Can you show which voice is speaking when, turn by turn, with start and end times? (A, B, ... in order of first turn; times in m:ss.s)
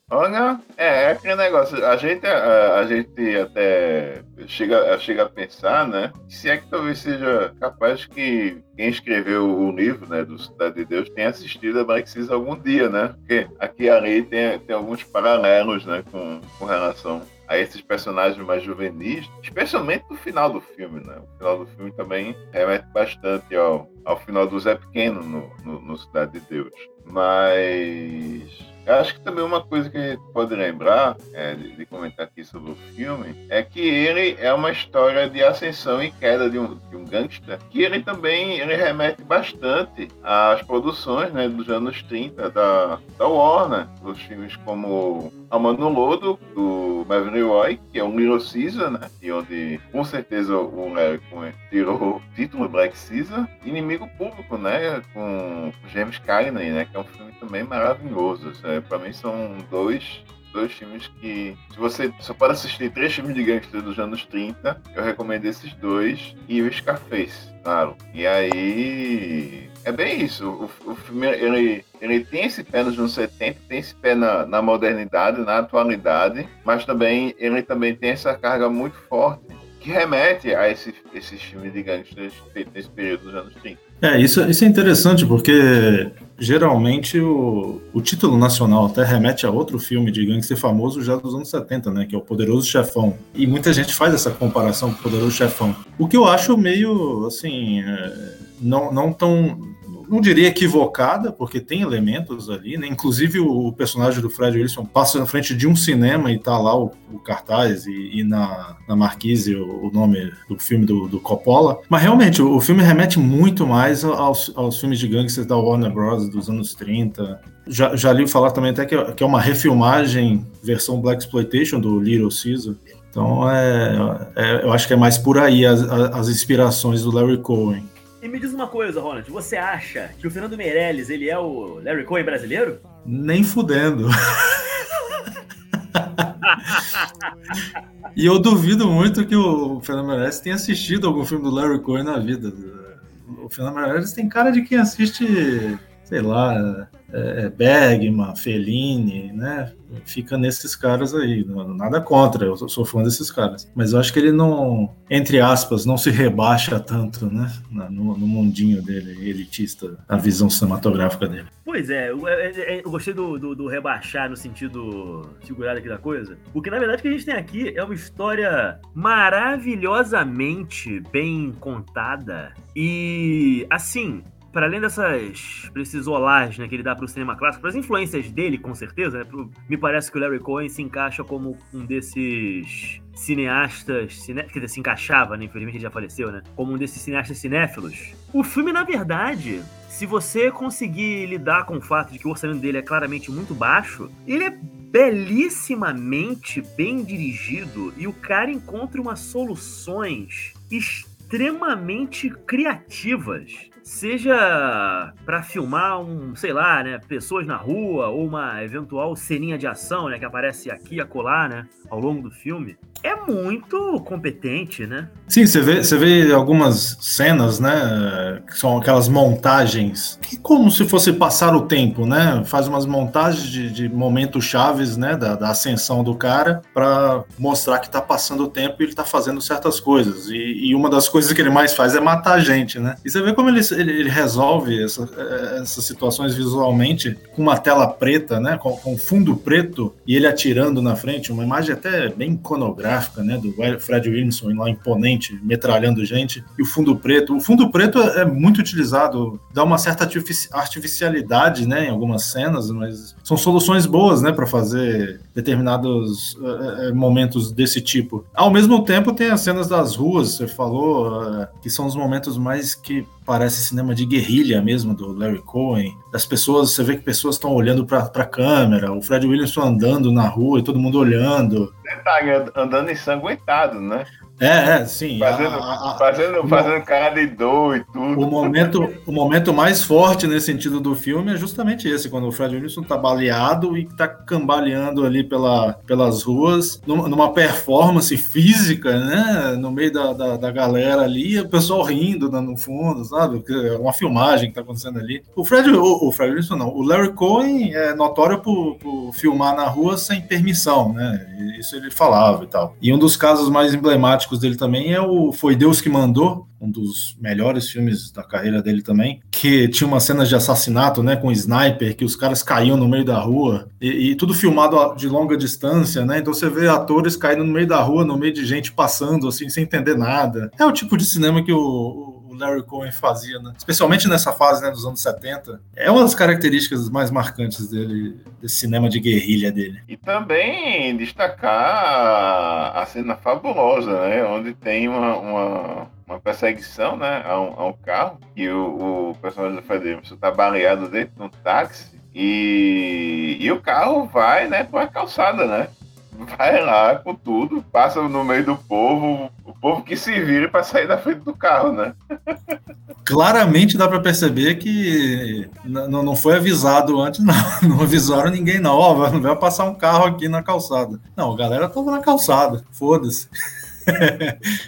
0:00.1-1:23.8 A
1:24.0-2:07.9 B
2:08.2-2:12.8 C
2:13.0-2:14.8 B
2:15.9-2:16.8 B
2:16.5-2:17.0 C
2:18.2-2:41.5 B
2:41.6-3:35.1 C
3:35.3-4:31.7 B
4:31.8-4:34.1 A
4:34.4-4:36.7 B
4:35.2-4:38.8 A
4:38.2-5:29.8 B
5:29.9-5:52.6 A
5:53.0-6:03.3 B
6:03.9-6:04.4 B